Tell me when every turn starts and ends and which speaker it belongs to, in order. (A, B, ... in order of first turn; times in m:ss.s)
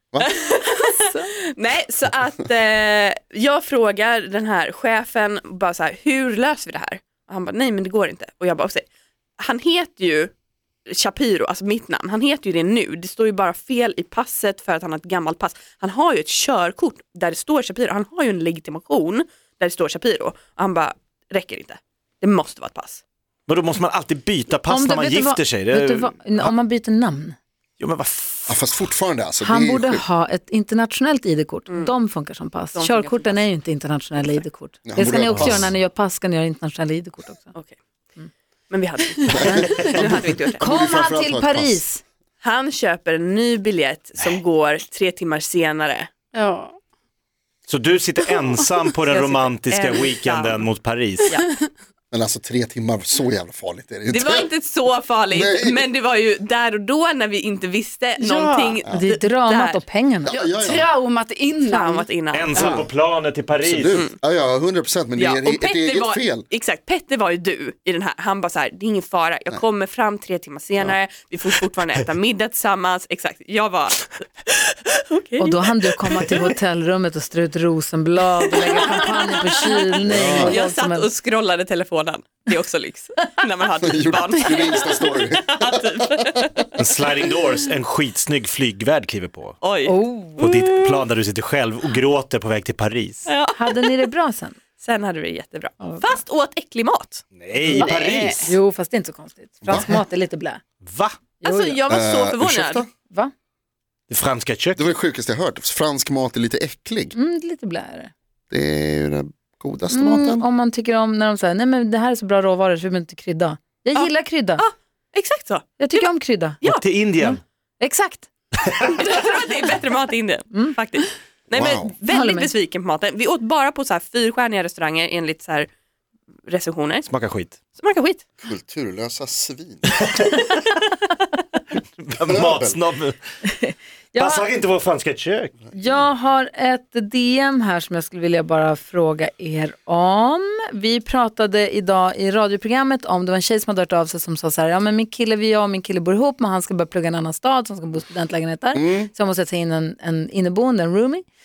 0:00.2-0:00.9 A
0:00.9-0:01.3 B
0:01.5-0:08.8 A
0:09.4-0:10.3 A
0:10.9-0:23.0 A
0:23.5-0:26.5 C
0:24.7-0:27.4 B
0:27.8-0:28.6 C
0:28.5-0:30.0 D
0:29.4-0:37.5 B
0:32.7-0:33.4 A
0:34.8-0:35.7 D
0:35.2-0:35.7 C
0:38.7-0:40.6 A
0:39.3-0:39.9 D
0:39.4-0:40.0 B
0:40.6-0:42.0 B
0:40.6-0:41.8 D
0:42.4-0:46.1 A
0:46.3-0:46.7 E
0:47.7-0:51.4 C
0:49.0-0:50.7 A
0:52.1-0:54.5 D
0:54.1-0:59.8 A
0:55.3-0:55.9 D
0:58.2-1:00.4 B
1:00.2-1:00.9 D
1:00.3-1:02.8 E
1:01.6-1:02.8 A
1:02.3-1:04.0 C
1:03.6-1:06.5 D
1:05.2-1:14.6 A
1:15.1-1:16.4 A
1:15.4-1:21.1 B
1:18.6-1:26.7 A
1:20.0-1:20.6 D
1:23.8-1:26.5 D
1:26.8-1:29.6 C
1:29.6-1:31.0 A
1:29.8-1:30.4 B
1:30.4-1:33.3 C
1:33.3-1:34.0 A
1:33.5-1:34.6 B
1:34.8-1:37.2 A
1:35.8-1:36.1 B
1:37.3-1:38.5 C
1:37.6-1:38.5 E
1:38.4-1:40.6 B
1:39.6-1:39.9 D
1:40.8-1:41.2 C
1:41.4-1:41.8 B
1:41.4-1:42.8 A
1:41.9-1:42.9 D
1:44.1-1:44.8 C
1:44.8-1:47.1 D
1:47.1-1:48.1 B
1:48.5-1:50.4 D
1:49.9-1:54.6 B
1:53.9-1:56.0 A
1:55.8-1:56.6 B
1:56.6-1:57.4 C
1:57.2-1:58.3 B
1:58.7-1:58.9 C
1:58.9-2:05.7 A
2:01.5-2:01.9 D
2:02.1-2:02.5 B
2:06.5-2:07.1 A
2:07.1-2:07.6 C
2:07.7-2:08.2 A
2:08.4-2:09.9 D
2:09.9-2:10.4 C
2:12.0-2:13.2 C
2:12.3-2:12.8 D
2:13.6-2:14.5 B
2:14.2-2:15.5 C
2:15.7-2:31.2 B
2:28.7-2:29.1 D